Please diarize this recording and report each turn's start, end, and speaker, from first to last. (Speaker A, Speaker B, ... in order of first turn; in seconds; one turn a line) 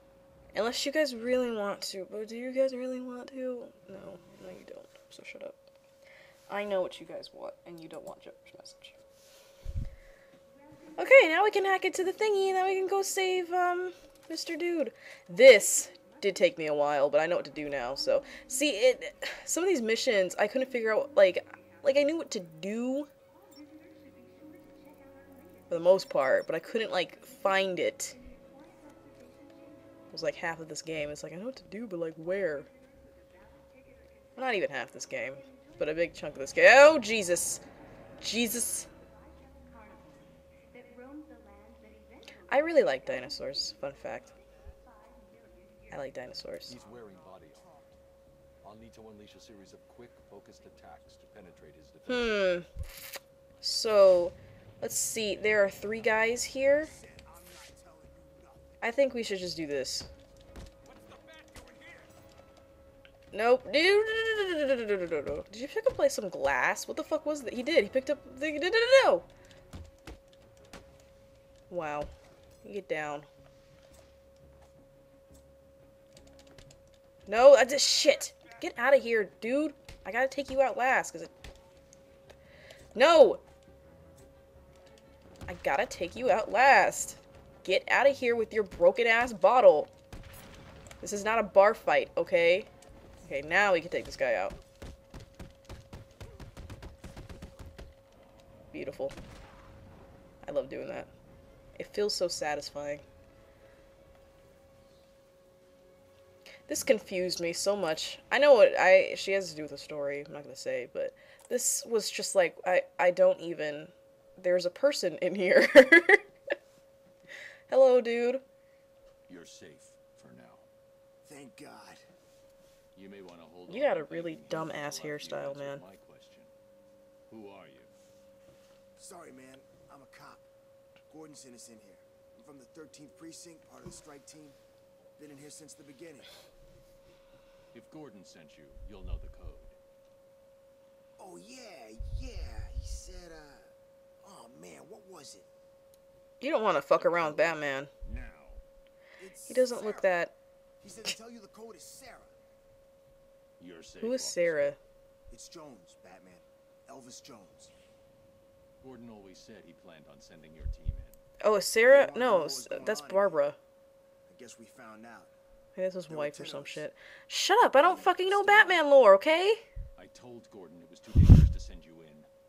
Speaker A: 0.5-5.6
Speaker A: 6.5-9.0
Speaker A: 11.0-23.1
Speaker A: 25.7-28.2
Speaker A: 30.1-32.7
Speaker A: 34.4-37.6
Speaker A: 38.2-38.9
Speaker A: 42.5-44.3
Speaker B: 44.3-44.8
Speaker A: 45.9-46.8
Speaker C: 46.6-47.7
Speaker B: 46.7-48.0
Speaker C: 48.6-52.4
Speaker A: 52.1-52.7
Speaker A: 53.6-56.9
Speaker B: 56.8-58.8
Speaker A: 58.8-60.1
Speaker C: 60.9-62.0
Speaker A: 63.3-69.3
Speaker A: 71.7-72.1
Speaker A: 72.6-73.3
Speaker A: 77.3-81.3
Speaker A: 83.0-83.4
Speaker A: 85.5-89.9
Speaker A: 91.0-92.7
Speaker A: 93.2-94.5
Speaker A: 98.7-99.2
Speaker A: 100.4-101.1
Speaker A: 101.8-103.0
Speaker A: 106.7-116.2
Speaker A: 117.7-118.4
Speaker C: 119.3-120.7
Speaker B: 121.2-122.0
Speaker C: 123.0-126.5
Speaker A: 123.7-125.8
Speaker C: 127.3-127.9
Speaker B: 129.0-130.5
Speaker B: 131.1-134.6
Speaker B: 135.2-136.4
Speaker C: 137.7-139.8
Speaker B: 141.2-143.7
Speaker B: 144.2-145.5
Speaker A: 146.4-147.9
Speaker C: 146.8-148.6
Speaker B: 149.2-150.1
Speaker A: 149.5-150.3
Speaker B: 150.8-152.3
Speaker C: 153.6-154.8
Speaker A: 154.0-154.8
Speaker B: 155.3-157.7
Speaker C: 158.8-161.2
Speaker A: 161.4-163.6
Speaker B: 161.8-163.4
Speaker B: 164.3-165.3
Speaker A: 165.8-169.6
Speaker B: 166.1-166.9
Speaker B: 167.6-168.8
Speaker C: 170.0-172.3